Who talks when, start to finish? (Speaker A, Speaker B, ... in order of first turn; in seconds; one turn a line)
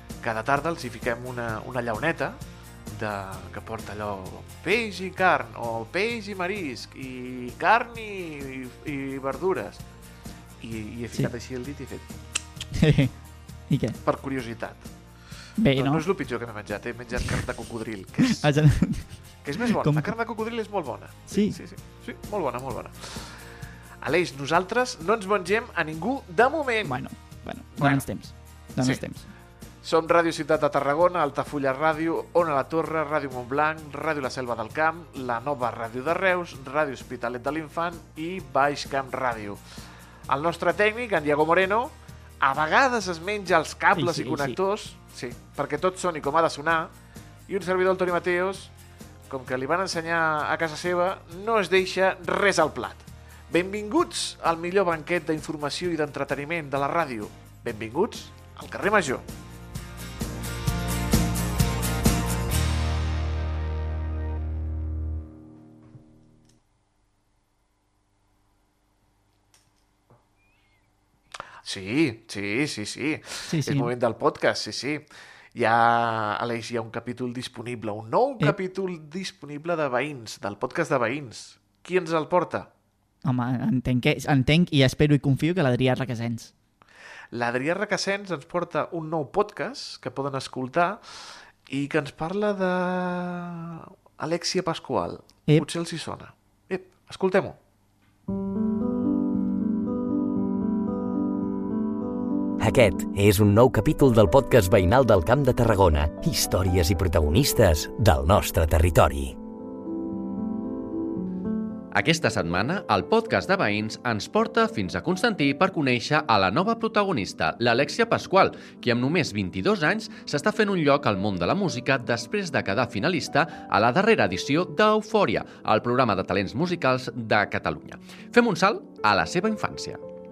Speaker A: 0.2-9.8
Speaker A: 10.6-12.1
Speaker B: 12.8-13.1
Speaker B: 13.7-14.0
Speaker A: 14.1-14.9
Speaker B: 15.6-16.1
Speaker A: 15.7-18.5
Speaker B: 18.4-19.1
Speaker A: 19.4-23.4
Speaker B: 19.8-20.1
Speaker B: 21.3-21.6
Speaker A: 24.0-27.0
Speaker B: 26.9-29.3
Speaker A: 27.8-28.1
Speaker A: 29.8-39.6
Speaker A: 40.3-46.9
Speaker B: 44.0-44.6
Speaker A: 47.5-48.7
Speaker A: 49.3-59.3
Speaker A: 71.6-82.7
Speaker B: 73.5-73.9
Speaker B: 83.2-86.5
Speaker A: 87.3-91.0
Speaker A: 91.7-97.6
Speaker C: 102.6-109.4
Speaker D: 111.9-130.0